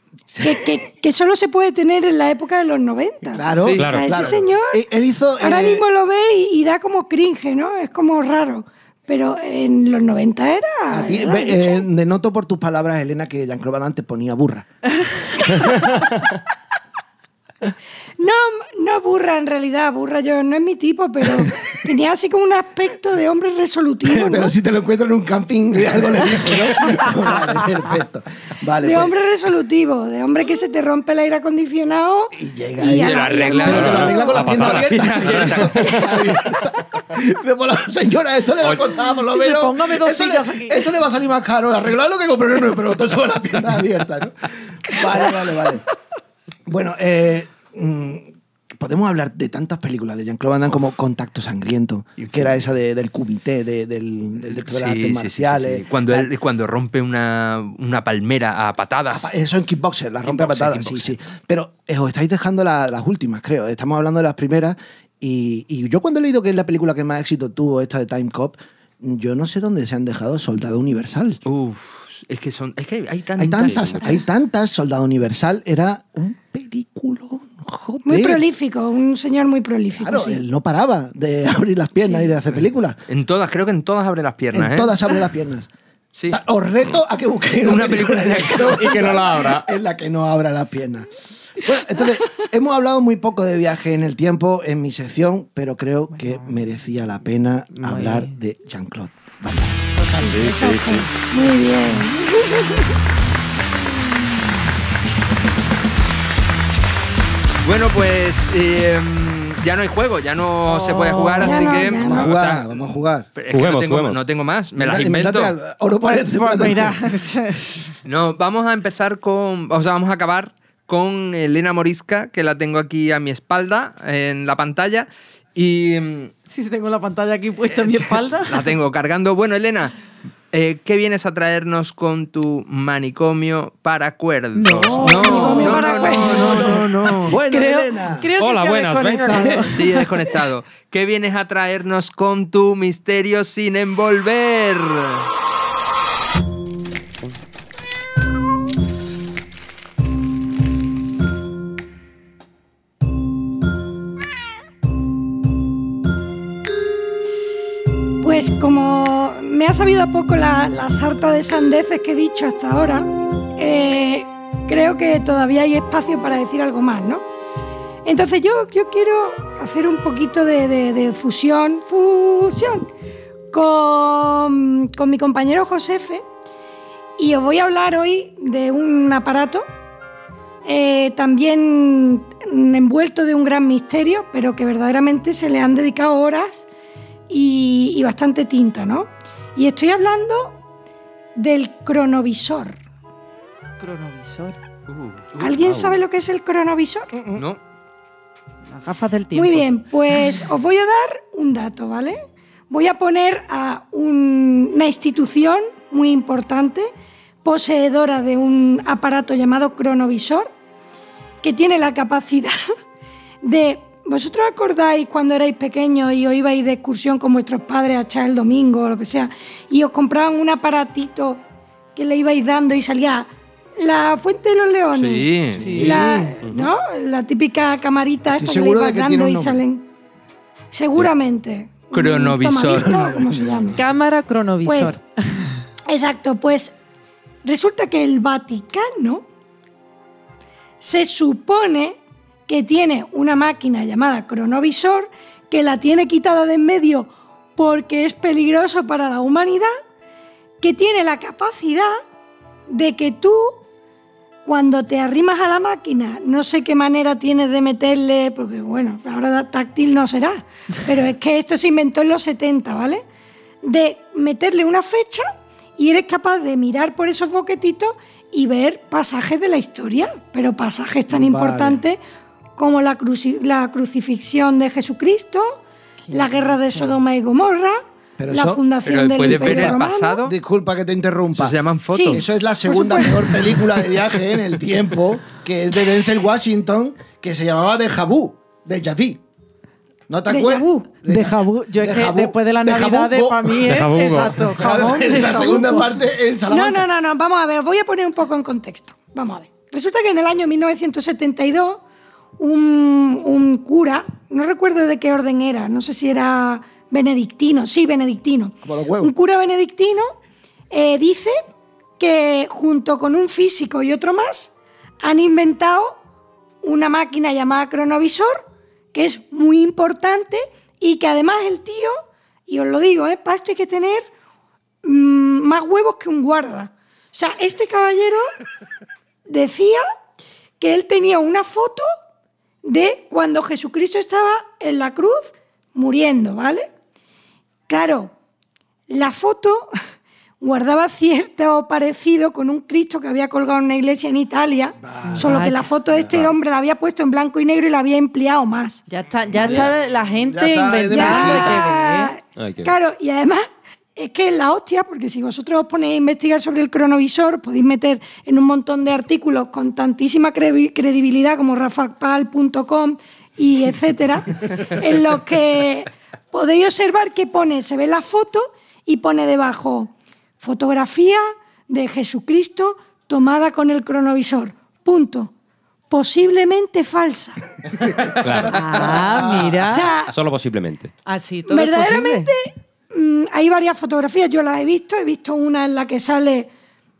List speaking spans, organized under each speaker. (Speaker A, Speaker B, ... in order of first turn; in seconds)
Speaker A: 0.3-0.7, 3.3-5.8, 10.9-14.7, 15.5-15.9, 24.0-29.1, 32.3-45.8, 46.7-56.3, 59.1-71.4, 73.4-78.4, 79.9-83.0, 84.5-85.7, 86.3-99.8, 112.0-113.3, 114.8-117.0, 134.9-138.3, 139.3-139.6, 197.1-197.4, 228.3-229.6, 232.7-233.8, 271.1-271.8, 278.2-278.6, 279.3-281.6, 282.1-289.2, 290.1-293.9, 294.5-296.9, 308.6-309.1, 344.8-346.3, 349.4-349.7, 350.2-351.7, 377.9-379.6
Speaker B: 0.4-4.8, 5.4-11.8, 18.2-24.5, 28.8-34.5, 78.0-80.4, 100.0-102.9, 111.4-112.3, 135.3-136.6, 158.2-167.2, 168.0-172.9, 173.5-176.2, 177.2-179.7, 180.6-186.7, 187.3-190.6, 191.3-192.8, 195.4-197.1, 199.3-206.9, 207.4-210.5, 211.4-212.5, 213.4-221.4, 221.9-229.9, 230.7-233.8, 234.6-235.0, 235.9-236.7, 237.4-239.2, 240.8-241.9, 242.5-249.7, 250.6-251.9, 252.7-253.6, 254.4-263.0, 263.6-272.0, 272.6-275.6, 276.1-280.2, 281.9-283.5, 290.3-290.9, 295.1-295.6, 296.5-301.8, 302.4-310.1, 310.7-311.4, 312.0-316.0, 316.6-324.1, 324.8-328.3, 329.3-329.8, 330.6-331.8, 332.6-336.7, 337.7-338.1, 338.9-339.7, 340.4-348.8, 349.4-349.7, 350.9-353.4, 353.9-375.3, 375.9-377.4, 379.6-380.1, 381.5-386.5
Speaker C: 3.6-3.9, 32.9-36.1, 52.2-52.5, 54.5-59.3, 60.2-61.1, 71.5-74.0, 83.1-85.0, 86.1-86.4, 87.6-89.2, 107.6-115.5, 118.0-126.3, 128.4-129.9, 130.5-137.4, 139.7-145.3, 194.9-196.0, 197.3-197.6, 224.9-225.6, 231.9-233.1, 278.8-280.3, 281.3-282.2
Speaker D: 3.8-4.3, 33.7-34.8, 88.9-89.6, 100.1-101.0, 113.5-114.2, 138.4-139.7, 293.6-294.5, 378.2-379.3, 380.1-380.9
Speaker E: 39.3-40.8, 96.1-96.6, 97.7-98.3, 110.6-111.9, 116.0-117.9, 126.5-128.7, 134.5-136.7, 137.3-140.1, 193.8-194.6, 198.7-199.7, 225.6-226.3, 233.7-235.5, 276.0-276.9, 291.1-295.9, 345.1-345.7, 348.9-352.1, 378.4-379.9, 381.1-382.3